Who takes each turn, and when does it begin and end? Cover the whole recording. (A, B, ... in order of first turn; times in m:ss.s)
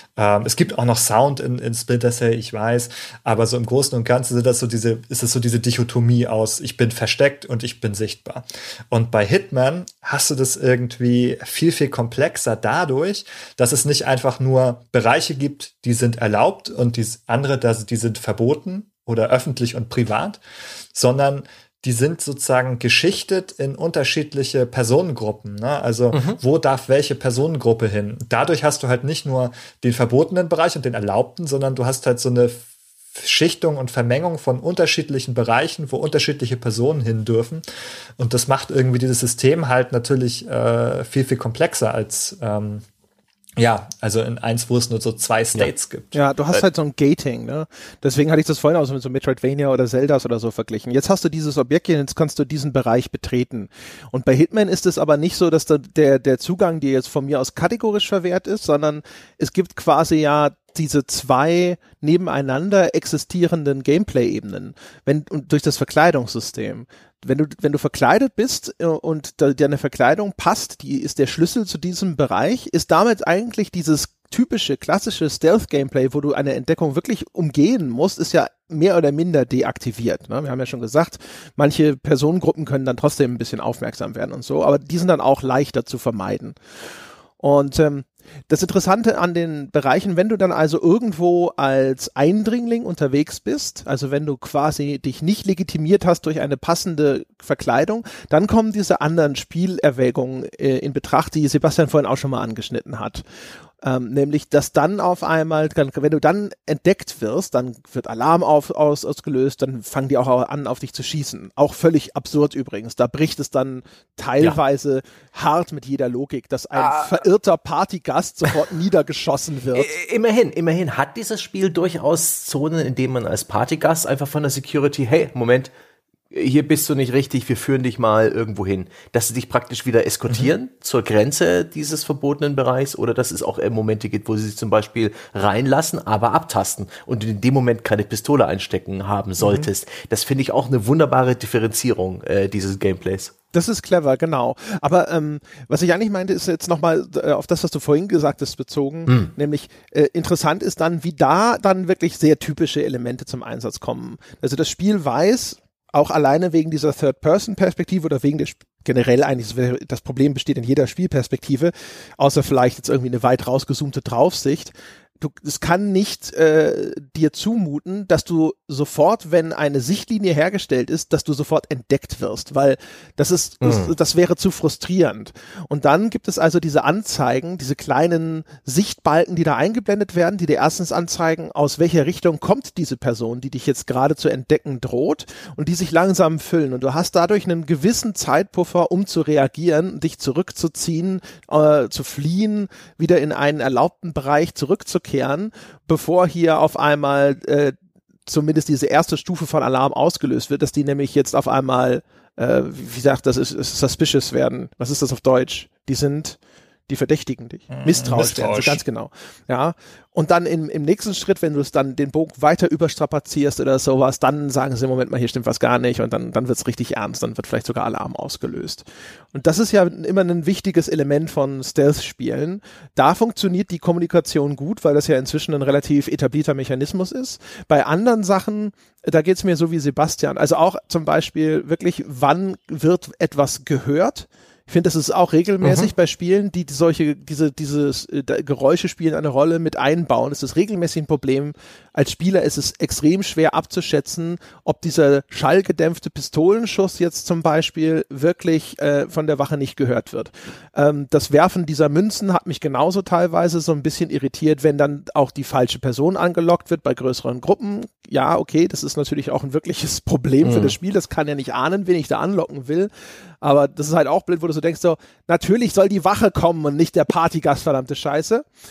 0:00.2-0:20.4 A
0:20.9-0:37.6 A
0:26.1-0:26.4 B
0:38.2-0:42.8 A
0:43.6-0:46.2 A
0:46.1-1:26.5 C
1:27.4-1:43.2 C
1:43.8-1:59.9 C
1:56.7-1:57.2 B
1:59.7-2:05.7 B
2:06.3-2:23.3 B
2:23.5-3:17.7 C
2:53.6-2:53.9 B
3:18.3-4:22.9 C
3:27.7-3:28.8 A
3:55.6-3:55.9 B
4:20.4-4:20.7 B
4:23.4-4:28.4 C